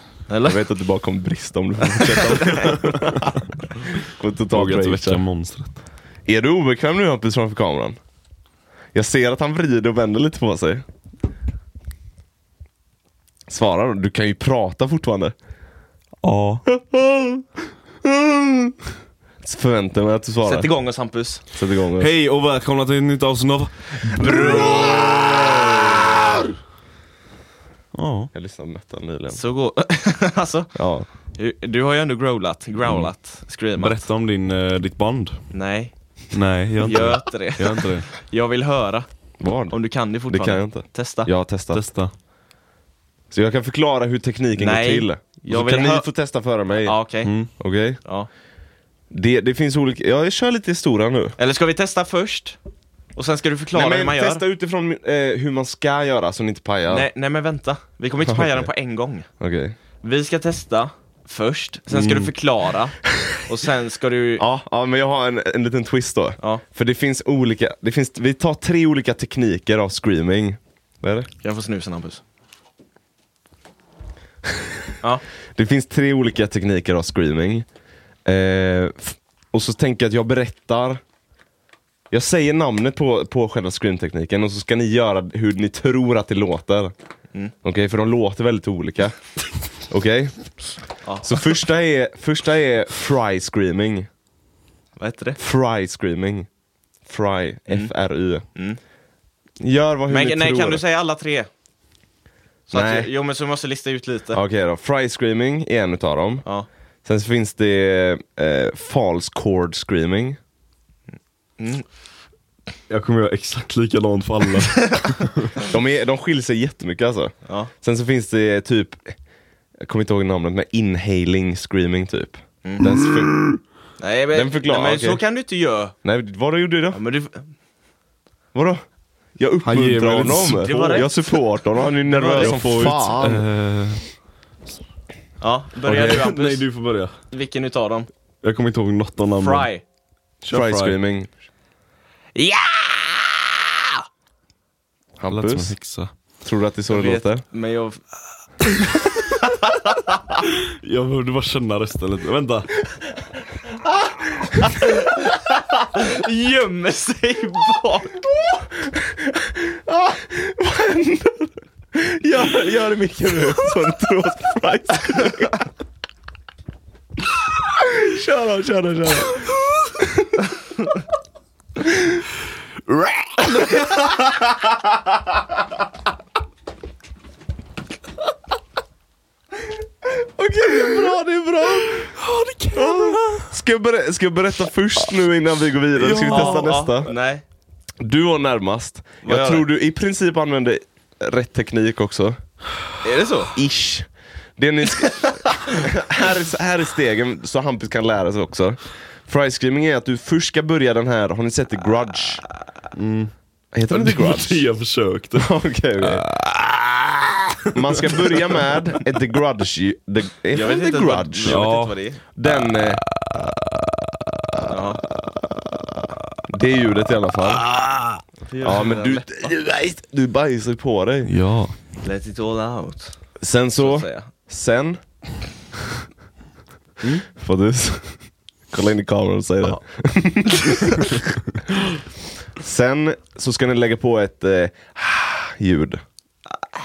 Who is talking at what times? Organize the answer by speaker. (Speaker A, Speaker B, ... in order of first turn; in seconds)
Speaker A: 0.3-0.6, 2.0-2.8, 20.4-21.4, 29.3-30.7, 31.4-34.0, 35.5-35.9, 36.8-39.1, 39.7-41.3, 44.6-46.1, 46.8-47.3, 48.0-48.3, 51.4-52.6, 53.1-54.4, 56.9-59.3, 60.0-64.4, 71.4-72.2, 91.0-91.4, 95.0-95.4, 98.5-98.8, 100.1-101.5, 102.7-104.4, 111.6-111.8, 117.5-117.7, 122.6-122.9, 124.0-125.9, 126.9-127.4, 130.5-131.4, 132.0-132.6, 135.4-136.7, 137.3-138.1, 139.4-139.8, 142.3-143.9, 146.9-148.0, 149.0-149.8, 154.8-158.2, 186.2-187.4, 189.2-189.7, 193.0-193.6, 210.5-212.2, 214.6-215.0, 218.5-219.4, 222.0-223.2, 223.8-224.3
Speaker B: 0.4-5.2, 6.2-8.0, 8.9-10.8, 13.5-15.4, 16.7-17.5, 18.0-18.8, 19.4-20.7, 21.5-22.1, 24.2-26.0, 28.3-29.4, 30.8-31.1, 39.4-41.8, 43.3-47.0, 47.6-48.0, 49.1-51.4, 53.7-57.1, 58.2-58.7, 59.4-59.8, 64.4-71.3, 75.5-77.7, 78.2-81.0, 82.1-86.9, 87.6-89.2, 89.9-90.4, 91.2-94.1, 95.4-96.5, 97.1-98.4, 99.6-100.8, 102.7-103.1, 104.3-106.5, 107.0-110.4, 115.6-119.2, 119.8-123.6, 124.3-125.2, 126.0-127.0, 128.5-128.8, 129.4-133.4, 140.5-141.3, 145.2-145.8, 146.4-147.4, 158.4-165.7, 167.8-170.5, 180.0-182.2, 182.7-187.1, 188.0-192.4, 193.5-202.4, 203.7-204.6, 205.3-206.2, 207.7-211.7, 212.3-213.0, 216.5-217.6, 218.6-221.3, 223.4-225.0, 227.3-231.2, 232.6-236.0
Speaker C: 4.5-5.8, 16.2-16.6, 22.0-25.0, 27.9-28.3, 33.8-35.4, 36.3-38.1, 41.7-42.1, 47.2-47.5, 61.9-62.3, 112.9-115.5, 129.6-130.7, 132.4-134.1, 135.8-137.2, 138.4-139.7, 140.4-141.0, 145.2-146.1, 150.6-152.8, 172.9-173.6, 182.1-183.5, 185.9-186.7, 202.9-203.3, 203.9-208.7, 211.4-212.0, 217.5-218.2, 221.2-221.7